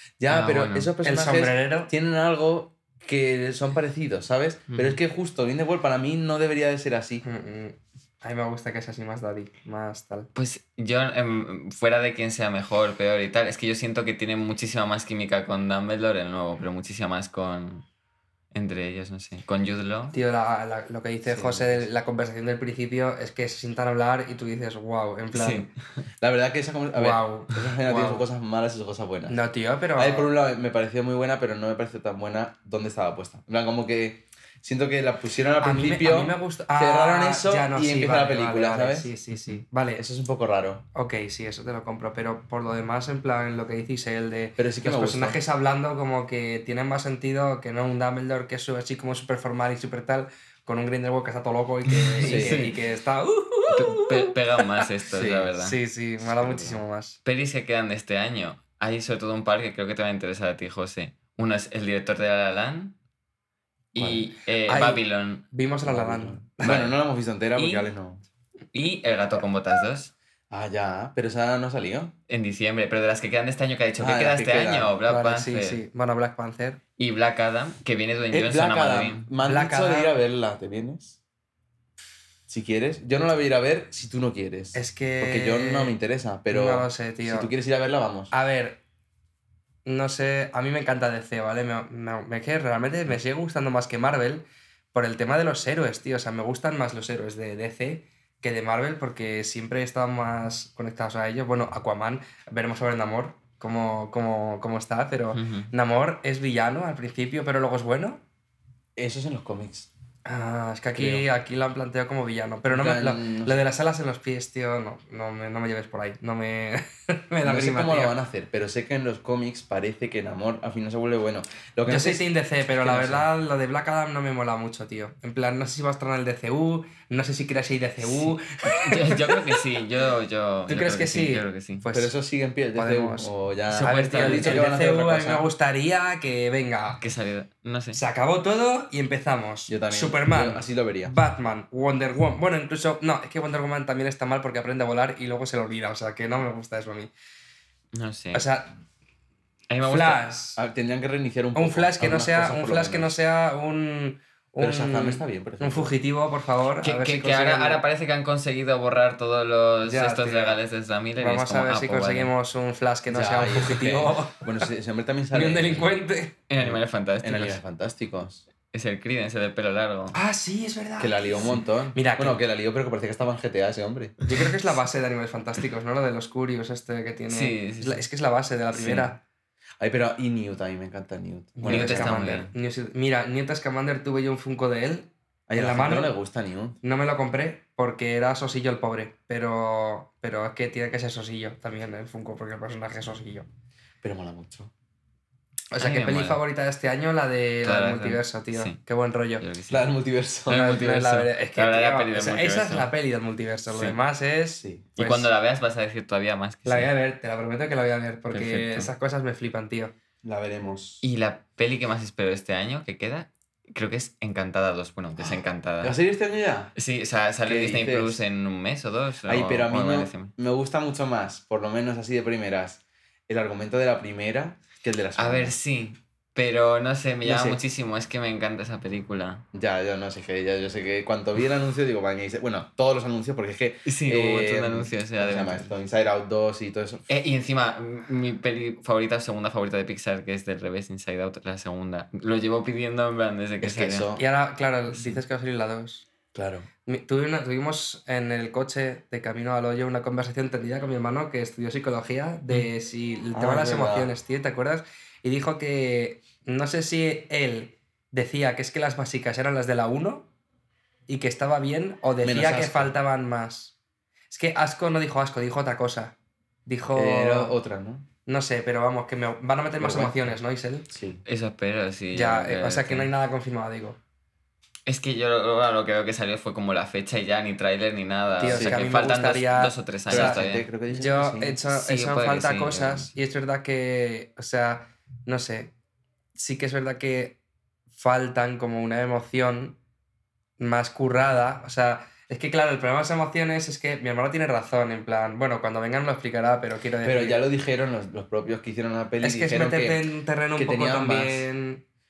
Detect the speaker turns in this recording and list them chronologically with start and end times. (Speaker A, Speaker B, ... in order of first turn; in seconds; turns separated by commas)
Speaker A: 0.2-7.2, Speaker B: 0.3-0.9, Speaker C: 1.0-1.9, Speaker B: 4.7-5.0, Speaker C: 7.2-10.3, Speaker B: 10.3-17.9, Speaker B: 18.5-20.1, Speaker C: 20.1-25.7, Speaker A: 21.3-21.9, Speaker B: 25.3-25.7, Speaker A: 26.2-29.4, Speaker C: 26.9-28.2, Speaker C: 29.3-30.3, Speaker A: 30.0-39.1, Speaker C: 35.6-40.0, Speaker A: 40.0-40.8, Speaker C: 40.9-54.9, Speaker A: 44.6-45.4, Speaker B: 51.9-52.8, Speaker A: 52.2-52.7, Speaker B: 53.7-55.8, Speaker A: 55.1-55.5, Speaker C: 55.6-57.2, Speaker A: 56.2-56.8, Speaker B: 57.2-63.0, Speaker B: 63.9-65.5, Speaker A: 64.0-64.3, Speaker C: 64.7-66.9, Speaker A: 65.8-68.2, Speaker B: 67.6-67.9, Speaker B: 68.7-70.1, Speaker A: 70.5-72.1, Speaker B: 72.3-75.8, Speaker A: 74.0-75.0, Speaker C: 75.1-76.8, Speaker B: 77.0-79.3, Speaker A: 78.3-81.2, Speaker C: 79.4-80.1, Speaker A: 82.5-88.3, Speaker C: 84.7-86.0, Speaker C: 86.5-87.5, Speaker C: 88.3-88.8, Speaker C: 89.8-108.2, Speaker B: 105.3-105.7, Speaker A: 109.0-109.9, Speaker C: 110.2-118.1, Speaker A: 111.0-111.3, Speaker A: 112.7-113.6, Speaker A: 117.4-123.3, Speaker C: 121.9-129.6, Speaker B: 128.0-131.8, Speaker C: 130.7-132.1, Speaker A: 131.9-135.5, Speaker C: 132.8-137.0, Speaker B: 133.7-134.7, Speaker B: 137.0-138.0, Speaker C: 137.9-147.1, Speaker A: 139.7-141.1, Speaker B: 147.9-148.4, Speaker C: 148.3-148.7, Speaker B: 149.7-150.2, Speaker C: 149.8-150.6, Speaker A: 150.6-153.1, Speaker C: 151.5-157.8, Speaker A: 154.6-155.9, Speaker B: 156.8-162.3, Speaker C: 159.8-160.6, Speaker C: 161.2-164.7, Speaker A: 163.1-166.0, Speaker C: 165.3-166.3, Speaker B: 166.5-167.6, Speaker A: 166.6-168.4, Speaker B: 168.7-170.2, Speaker C: 170.1-172.4, Speaker A: 171.0-174.2, Speaker C: 174.2-179.2, Speaker B: 177.3-178.1, Speaker B: 178.7-179.1, Speaker A: 179.8-182.5, Speaker C: 181.6-186.1, Speaker B: 181.7-182.5, Speaker A: 185.5-186.8, Speaker C: 186.8-193.5, Speaker A: 194.0-194.7, Speaker C: 195.7-199.5, Speaker B: 195.8-196.4, Speaker B: 197.6-198.8, Speaker B: 199.4-199.9, Speaker A: 199.7-200.8, Speaker B: 200.5-202.9, Speaker C: 200.5-205.3, Speaker B: 203.7-204.0, Speaker A: 204.6-204.9, Speaker B: 205.0-206.9, Speaker C: 206.6-209.9, Speaker B: 208.3-208.9, Speaker A: 210.2-211.0, Speaker B: 211.0-216.0, Speaker A: 215.2-216.7, Speaker B: 216.8-220.3, Speaker A: 217.4-218.2, Speaker A: 219.3-225.6, Speaker B: 225.2-229.4, Speaker A: 227.2-227.6, Speaker A: 229.5-237.1, Speaker B: 233.9-235.7, Speaker B: 237.1-244.1, Speaker A: 243.6-244.2, Speaker C: 244.2-246.1, Speaker A: 246.3-246.7, Speaker C: 246.9-260.3, Speaker A: 253.3-254.1, Speaker C: 261.1-263.7, Speaker A: 262.2-262.9, Speaker C: 264.3-266.1, Speaker C: 266.6-267.6, Speaker A: 266.9-268.1, Speaker C: 268.3-270.9, Speaker A: 269.8-270.3, Speaker A: 270.9-271.2, Speaker B: 271.2-273.1, Speaker C: 272.1-274.0, Speaker B: 274.9-280.7, Speaker C: 278.4-285.7, Speaker A: 278.4-278.9, Speaker A: 280.1-281.6, Speaker B: 281.7-283.1, Speaker C: 286.4-287.4, Speaker C: 287.9-289.8, Speaker C: 290.6-297.4, Speaker A: 297.0-300.0, Speaker C: 299.2-301.8, Speaker A: 300.6-301.5